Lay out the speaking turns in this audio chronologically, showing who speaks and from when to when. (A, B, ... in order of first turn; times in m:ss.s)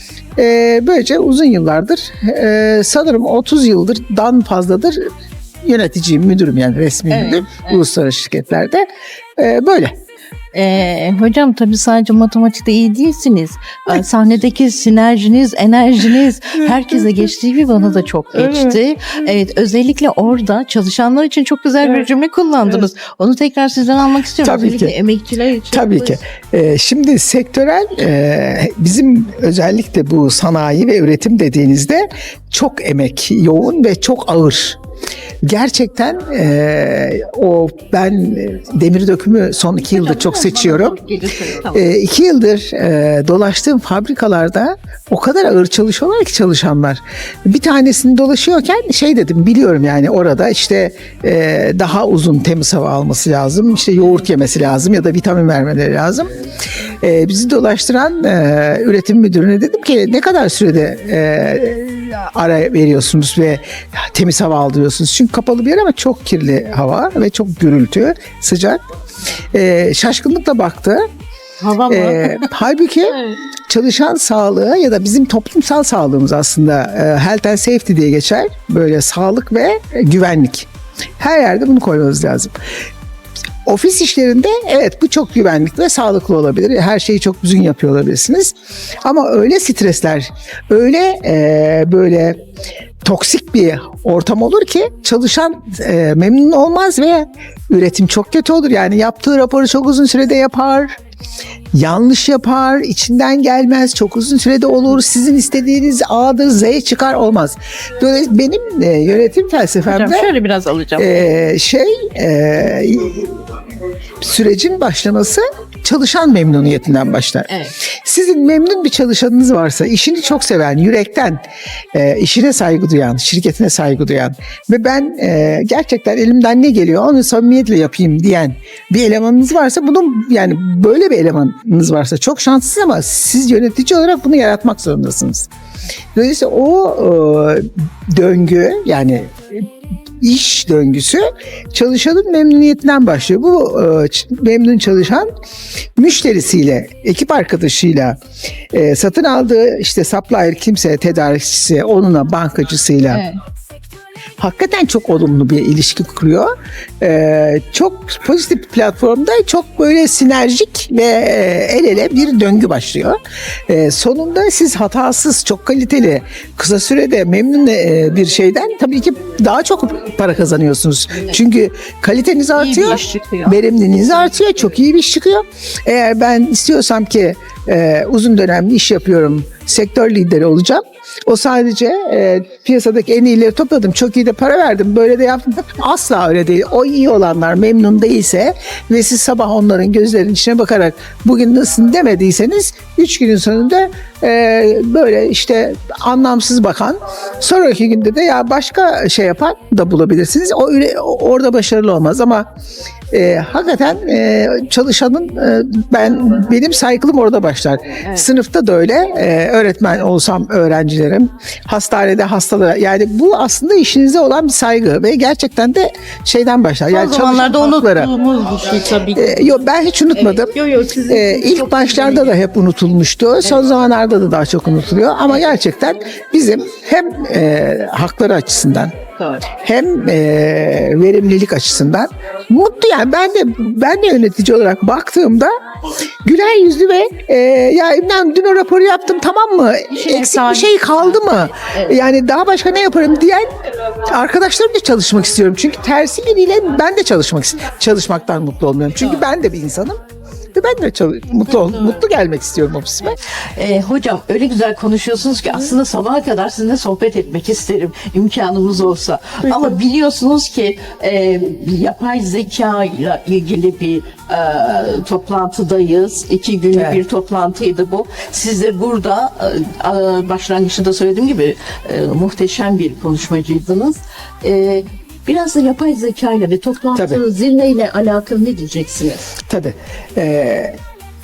0:00.4-0:05.0 A
0:05.6-0:08.8 A
0:07.1-0:07.8 B
0:09.4-0:09.9 A
0:10.5-0:26.2 B
0:24.4-0:25.0 A
0:25.7-0:34.8 A
0:35.4-0:41.0 A
0:39.9-0:41.9 B
0:41.7-0:56.3 A
0:57.0-1:08.8 A
1:09.5-1:11.0 A
1:11.6-1:12.5 B
1:11.9-1:13.2 A
1:13.1-1:13.4 B
1:13.7-1:22.5 A
1:23.7-1:28.5 A
1:29.0-1:32.4 A
1:33.0-1:41.0 A
1:41.7-1:50.3 A
1:49.9-1:51.4 B
1:51.0-1:53.3 A
1:54.2-1:57.5 A
1:58.0-2:01.4 A
2:01.9-2:15.5 A
2:16.2-2:19.6 A
2:20.2-2:25.3 A
2:26.0-2:28.2 A
2:28.7-2:33.2 A
2:33.1-2:33.4 B
2:34.4-2:36.5 A
2:37.0-2:43.2 A
2:43.7-3:22.4 A
2:52.6-2:53.6 B
3:23.1-3:38.1 A
3:36.9-3:42.4 B
3:39.1-3:40.5 A
3:41.1-3:48.9 A
3:49.2-3:49.5 B
3:49.6-3:55.5 A
3:56.2-4:03.5 A
3:59.9-4:02.0 B
4:04.1-4:10.0 A
4:10.6-4:13.2 A
4:11.6-4:12.0 B
4:13.6-4:39.3 B
4:19.4-4:19.7 A
4:26.7-4:27.0 A
4:37.0-4:37.2 A
4:39.5-4:40.8 A